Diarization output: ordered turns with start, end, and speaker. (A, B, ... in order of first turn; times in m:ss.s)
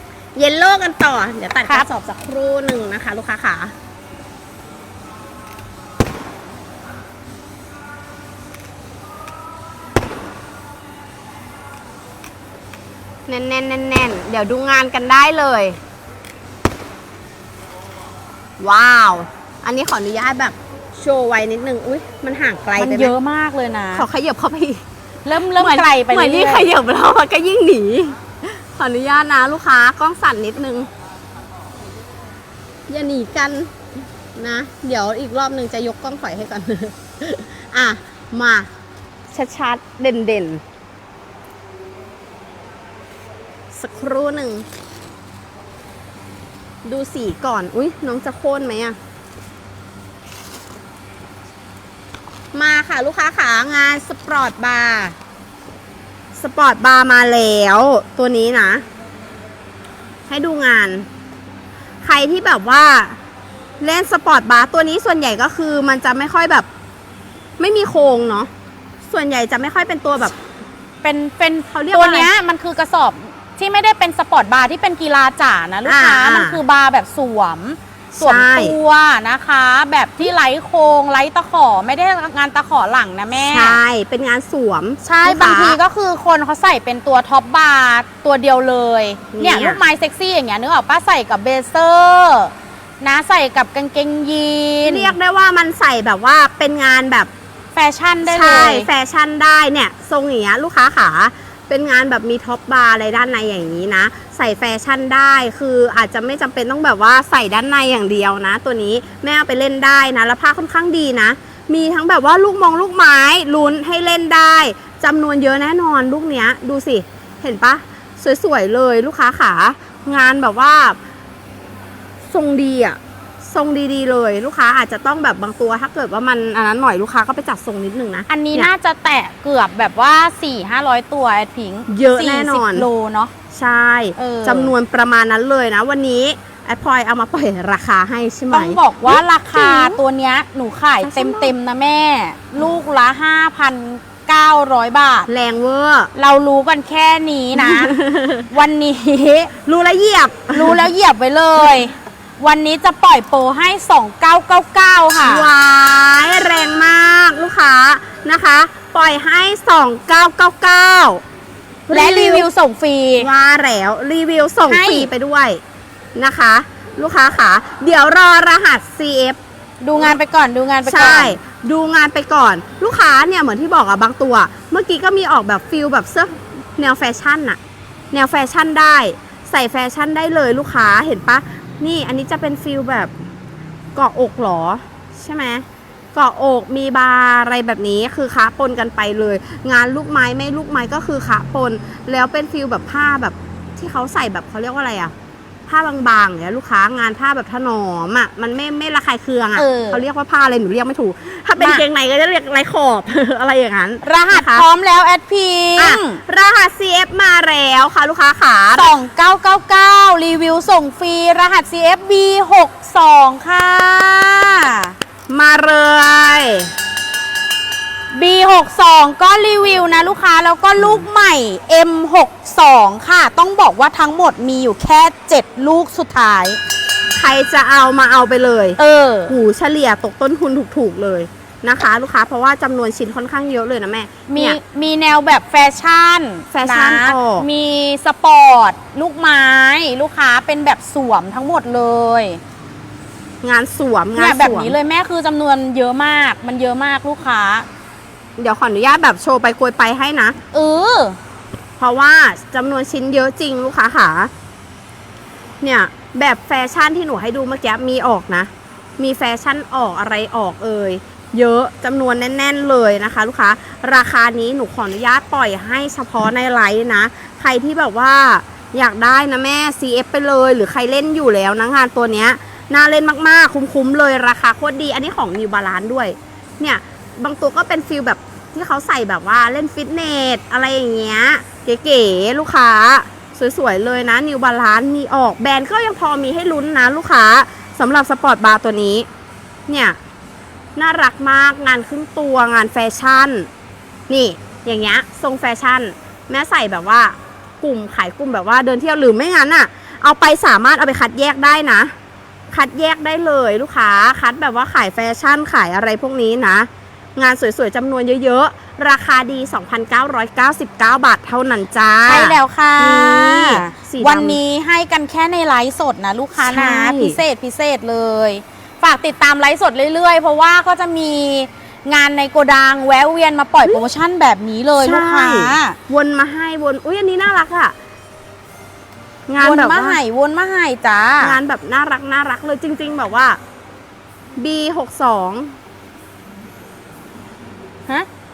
0:00.4-0:03.7 A
0:13.3-0:15.8 A
0:18.6-0:23.1 A
0:22.8-0:24.1 B
0:23.9-0:24.8 A
0:25.2-0:26.7 B
0:25.5-0:30.9 A
0:32.9-0:33.8 A
0:34.3-0:38.7 A
0:39.3-0:40.6 A
0:43.7-0:44.6 A
0:46.8-0:49.0 A
0:52.5-0:55.2 A
0:56.3-0:58.8 A
1:00.3-1:01.1 A
1:02.0-1:03.2 A
1:03.8-1:06.7 A
1:07.6-1:08.5 A
1:09.1-1:10.4 A
1:11.0-1:23.8 B
1:11.7-1:12.3 A
1:15.8-1:16.6 A
1:18.1-1:18.8 A
1:23.5-1:25.8 A
1:25.0-1:35.1 B
1:29.3-1:29.8 A
1:34.8-1:37.3 A
1:37.8-1:38.9 B
1:38.2-2:01.0 A
2:02.3-2:08.7 A
2:08.3-2:13.3 B
2:11.9-2:12.9 A
2:13.5-2:20.0 A
2:14.2-2:14.7 B
2:18.5-2:25.3 B
2:21.0-2:21.5 A
2:25.3-2:26.1 A
2:26.2-2:27.9 B
2:27.6-2:28.5 A
2:28.5-2:29.5 B
2:29.6-2:30.8 A
2:30.5-2:35.5 B
2:35.2-2:41.2 A
2:41.9-2:42.5 A
2:41.9-2:43.3 B
2:43.2-2:45.6 A
2:44.7-2:45.1 B
2:46.2-2:49.4 A
2:49.8-2:51.4 B
2:50.8-2:57.6 A
2:58.1-3:03.1 A
3:04.0-3:15.1 A
3:15.7-3:24.6 A
3:19.6-3:20.0 B
3:21.6-3:21.8 B
3:24.0-3:26.2 B
3:25.8-3:28.9 A
3:28.8-3:34.9 B
3:35.3-3:36.7 A
3:38.1-3:46.6 B
3:40.8-3:41.0 A
3:47.2-3:48.8 A
3:48.8-3:49.3 B
3:49.3-3:54.6 A
3:54.3-4:02.4 B
3:56.5-3:57.5 A
4:03.4-4:04.8 A
4:04.2-4:07.7 B
4:08.4-4:10.4 A
4:10.5-4:11.2 B
4:11.8-4:14.3 A
4:15.6-4:49.1 A
4:49.7-4:50.0 A
4:50.8-4:53.5 A
4:54.1-5:01.9 A
5:02.5-5:14.4 A
5:12.1-5:25.8 B
5:16.4-5:17.2 A
5:24.8-5:27.8 A
5:29.3-5:30.0 A
5:29.4-5:31.4 B
5:31.2-5:33.4 A
5:34.4-5:35.5 A